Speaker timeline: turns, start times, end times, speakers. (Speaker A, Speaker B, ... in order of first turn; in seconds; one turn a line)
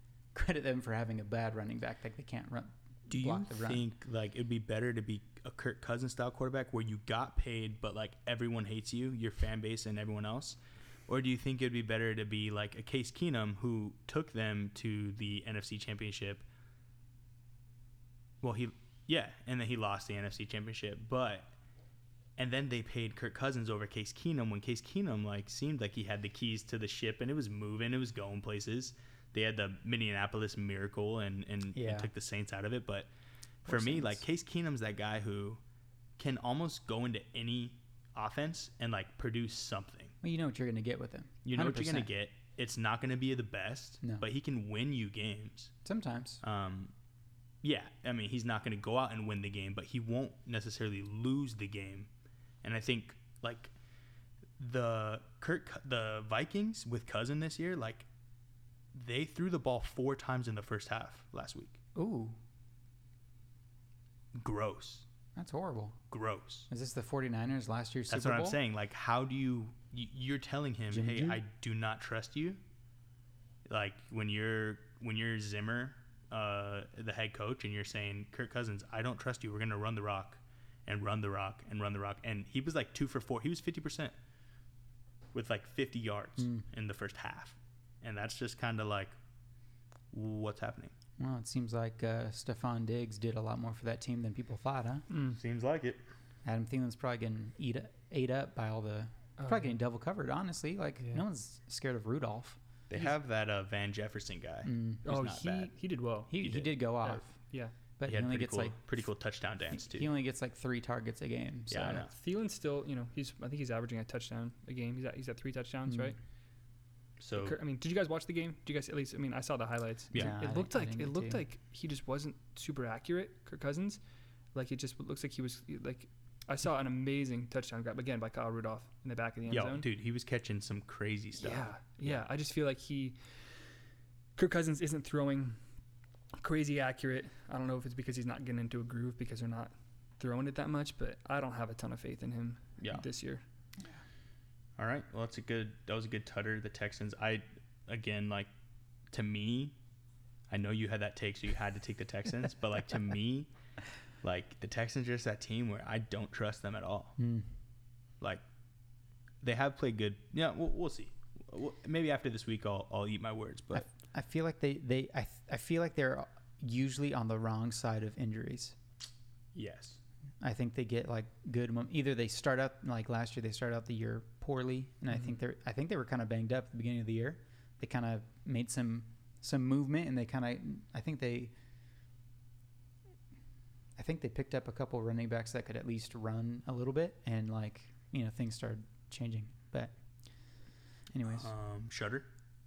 Speaker A: 0.3-3.9
Speaker B: 3.1-16.4
Speaker B: 18.4-21.5
Speaker B: 22.4-33.1
Speaker A: 31.7-32.1
Speaker B: 33.6-35.6
Speaker A: 33.7-34.2
Speaker B: 36.2-40.1
Speaker A: 40.2-42.1
Speaker B: 41.5-45.7
Speaker A: 45.9-46.4
Speaker B: 46.4-46.9
Speaker B: 47.6-52.1
Speaker B: 52.6-53.7
Speaker B: 54.6-58.1
Speaker B: 58.9-61.8
Speaker A: 62.0-62.4
Speaker B: 64.3-65.1
Speaker A: 65.3-66.0
Speaker B: 66.1-66.7
Speaker A: 66.7-68.6
Speaker B: 68.1-72.6
Speaker A: 70.9-71.4
Speaker B: 73.7-84.1
Speaker B: 85.3-89.1
Speaker A: 86.4-86.6
Speaker B: 90.1-90.9
Speaker A: 91.2-95.1
Speaker C: 95.1-95.4
Speaker B: 95.3-96.0
Speaker A: 96.4-102.6
Speaker C: 99.4-99.8
Speaker B: 102.9-105.7
Speaker A: 104.6-105.0
Speaker C: 105.0-106.4
Speaker A: 106.3-107.3
Speaker B: 106.4-106.7
Speaker C: 107.0-107.7
Speaker A: 108.0-108.8
Speaker B: 108.0-110.1
Speaker A: 109.7-112.1
Speaker B: 111.7-112.1
Speaker C: 112.0-116.2
Speaker A: 115.9-116.1
Speaker B: 117.2-117.6
Speaker C: 117.4-124.0
Speaker A: 120.2-121.4
Speaker C: 124.5-129.9
Speaker B: 129.5-132.2
Speaker C: 131.4-133.2
Speaker C: 134.4-135.6
Speaker C: 136.4-143.4
Speaker B: 142.8-143.1
Speaker B: 144.8-148.5
Speaker B: 149.1-149.8
Speaker B: 150.5-153.5
Speaker B: 154.2-157.2
Speaker A: 157.2-157.5
Speaker B: 159.4-163.9
Speaker A: 163.7-168.8
Speaker B: 169.5-170.0
Speaker A: 170.4-181.5
Speaker A: 184.0-189.9
Speaker A: 191.1-191.5
Speaker B: 191.3-192.3